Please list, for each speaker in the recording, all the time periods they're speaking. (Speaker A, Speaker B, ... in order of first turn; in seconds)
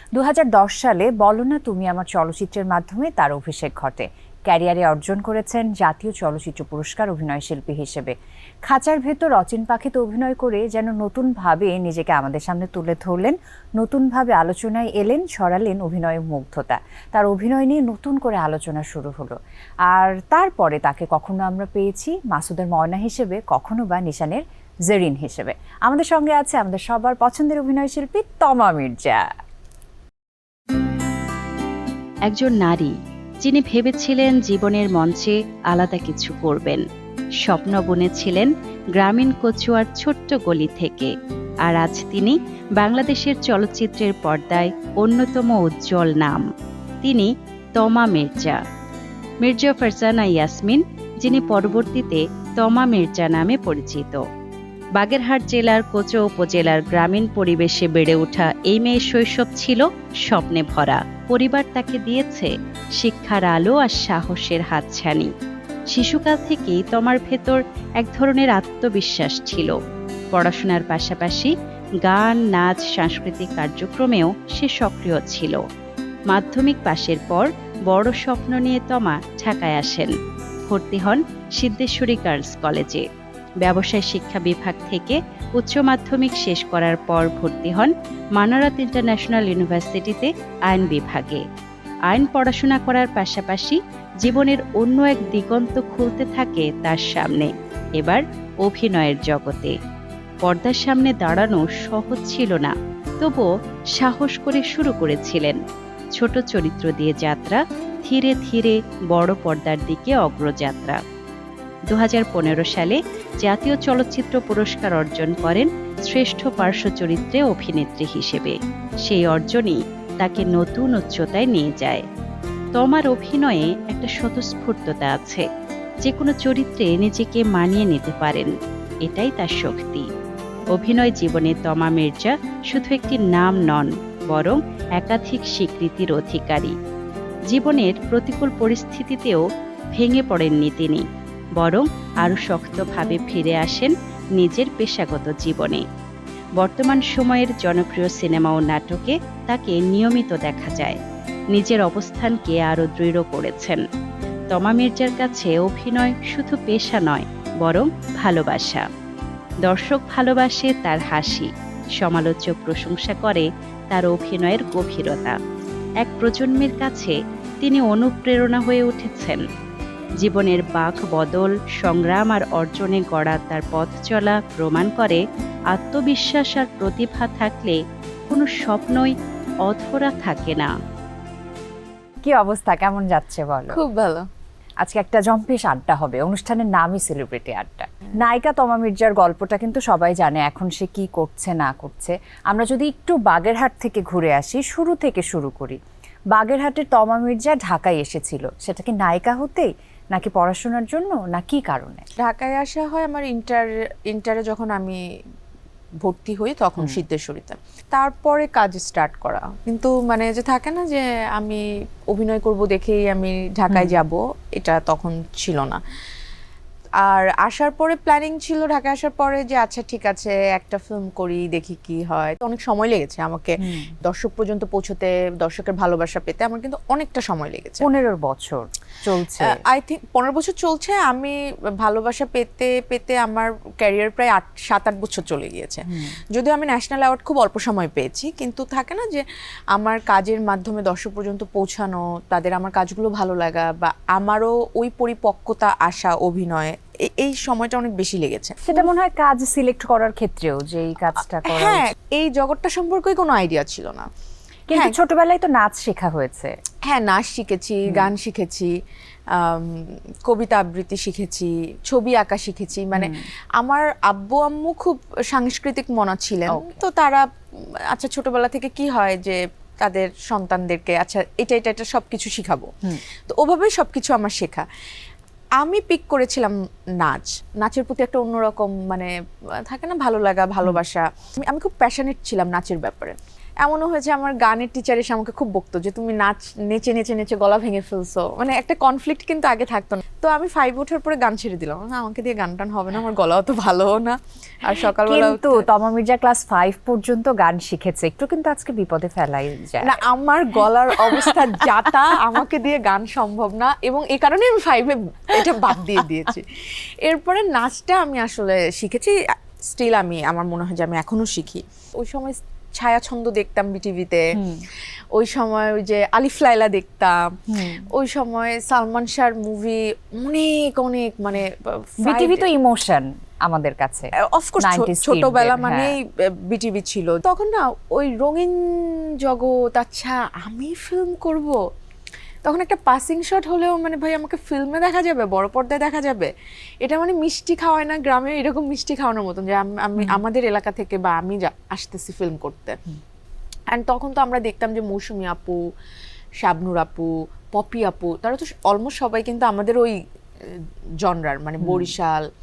Speaker A: 0.1-8.1, 8.7-29.3, 182.2-183.8, 184.8-195.8, 196.3-202.0, 213.7-213.9, 223.6-223.9, 227.8-229.6, 235.9-236.2, 248.7-251.9, 254.7-256.5, 266.5-266.8, 294.8-300.0, 301.0-301.9, 314.3-314.6, 317.5-317.9, 322.0-325.9, 351.6-351.9
Speaker B: 32.2-36.8, 37.4-41.1, 41.6-46.4, 47.0-48.6, 49.4-54.2, 55.0-65.3, 65.9-69.8, 70.3-75.6, 76.3-80.1, 80.7-83.1, 83.6-91.4, 92.1-99.8, 100.4-105.6, 106.1-111.0, 111.9-122.0, 122.8-125.5, 126.0-128.5, 129.0-130.1, 130.7-136.7, 137.5-139.4, 139.9-141.1, 141.6-145.8, 146.6-151.0, 151.5-153.8, 154.5-158.8, 159.6-165.4, 166.0-169.4, 170.2-180.7
Speaker C: 183.7-184.2, 202.2-205.0, 206.0-215.8, 217.0-227.8, 229.4-248.9, 251.4-254.1, 256.9-258.7, 259.3-274.7, 275.6-295.6, 299.8-314.4, 315.1-322.4, 324.2-331.6, 332.4-336.3, 336.8-342.8, 343.7-345.6, 346.4-352.2